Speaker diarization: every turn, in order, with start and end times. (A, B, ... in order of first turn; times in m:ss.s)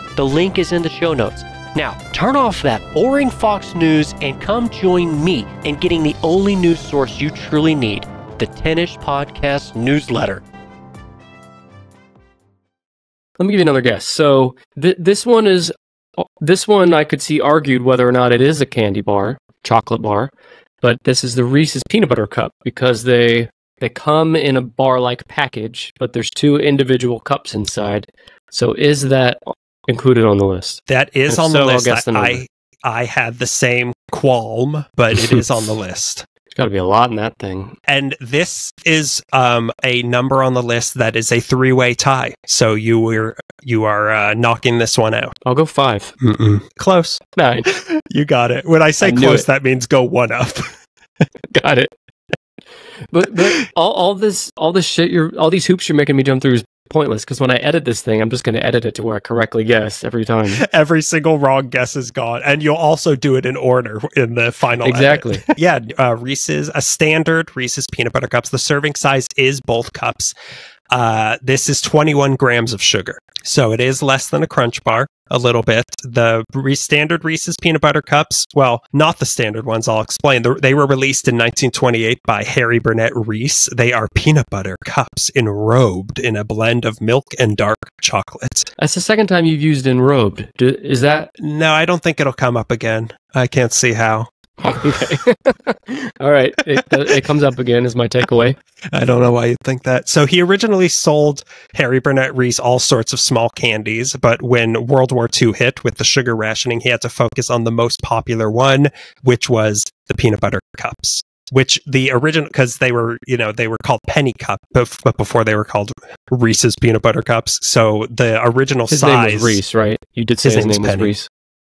0:00.2-0:10.4 A
0:13.4-0:32.4 B
0:30.9-0:36.2 C
0:36.6-0:37.8 B
0:37.9-0:45.4 C
0:45.4-0:46.1 B
0:46.2-0:50.8 C
0:47.4-0:47.7 B
0:49.0-0:49.4 B
0:51.5-0:51.9 B
0:53.1-1:00.6 B
1:00.6-1:10.3 C
1:04.8-1:05.5 B
1:10.9-1:28.7 C
1:28.8-1:31.3 B
1:31.4-1:35.0 C
1:34.6-1:38.6 B
1:38.9-1:59.6 C
1:58.9-2:01.3 B
2:00.4-2:01.1 C